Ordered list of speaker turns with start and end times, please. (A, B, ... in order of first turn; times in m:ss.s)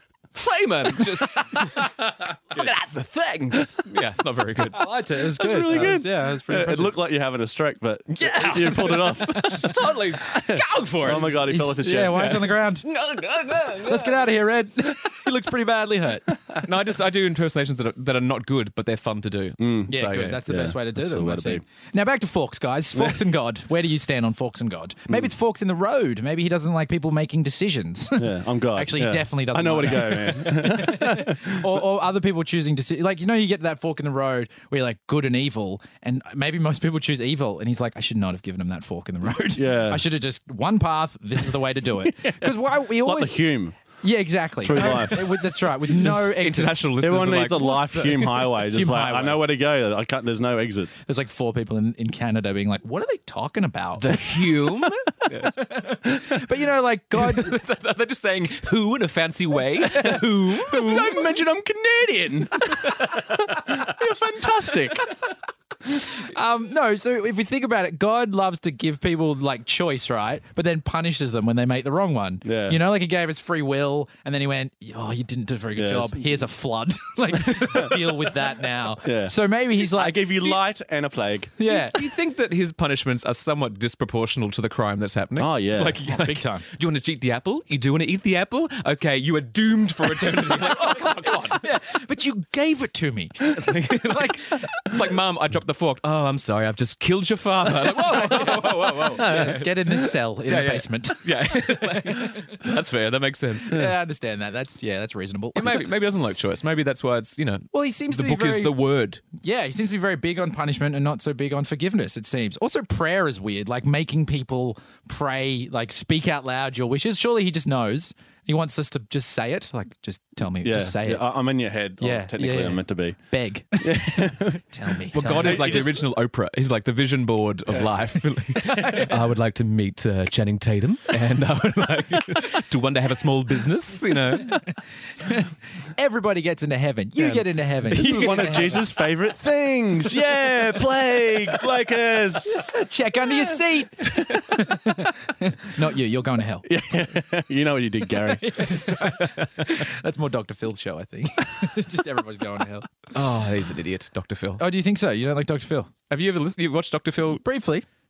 0:00.3-0:04.9 A
0:04.7-0:07.0 B
0:05.3-0:12.5 C
0:08.2-0:14.3 A
0:11.4-0:12.9 B
0:13.8-0:16.3 B
0:16.5-0:20.4 A
0:19.6-0:19.9 C
0:19.9-0:43.4 B
0:20.4-0:21.6 C
0:22.9-0:23.2 C
0:28.2-0:31.6 C
0:39.5-0:40.0 C
0:42.0-0:43.8 C
0:44.0-0:46.9 B
0:44.6-0:45.4 C
0:44.8-0:45.1 A
0:45.9-0:48.2 A
0:47.0-0:51.0 C
0:47.8-0:49.4 B
0:51.0-0:57.6 B
0:54.0-0:55.6 A
0:57.2-1:01.3 A
0:59.9-1:00.7 B
1:00.7-1:05.1 C
1:02.7-1:03.4 A
1:06.1-1:20.6 B
1:12.4-1:12.8 C
1:15.8-1:16.2 C
1:17.6-1:17.8 A
1:19.0-1:21.5 C
1:21.6-1:22.0 B
1:21.6-1:31.6 A
1:25.4-1:26.0 C
1:26.1-1:26.6 B
1:30.5-1:34.7 B
1:33.4-1:43.8 A
1:37.8-1:42.6 B
1:43.7-1:45.8 B
1:45.5-1:49.2 A
1:47.7-1:48.7 B
1:49.4-2:01.3 B
2:00.6-2:03.2 C
2:02.0-2:05.9 B
2:03.8-2:04.6 C
2:05.1-2:14.6 A
2:05.2-2:06.1 C
2:08.6-2:09.1 B
2:15.2-2:18.8 B
2:17.2-2:18.8 A
2:17.9-2:22.7 C
2:22.4-2:26.6 B
2:26.6-2:28.6 C
2:28.3-2:32.9 B
2:33.1-2:34.6 A
2:34.6-2:35.9 B
2:36.1-2:37.4 A
2:37.4-2:37.8 B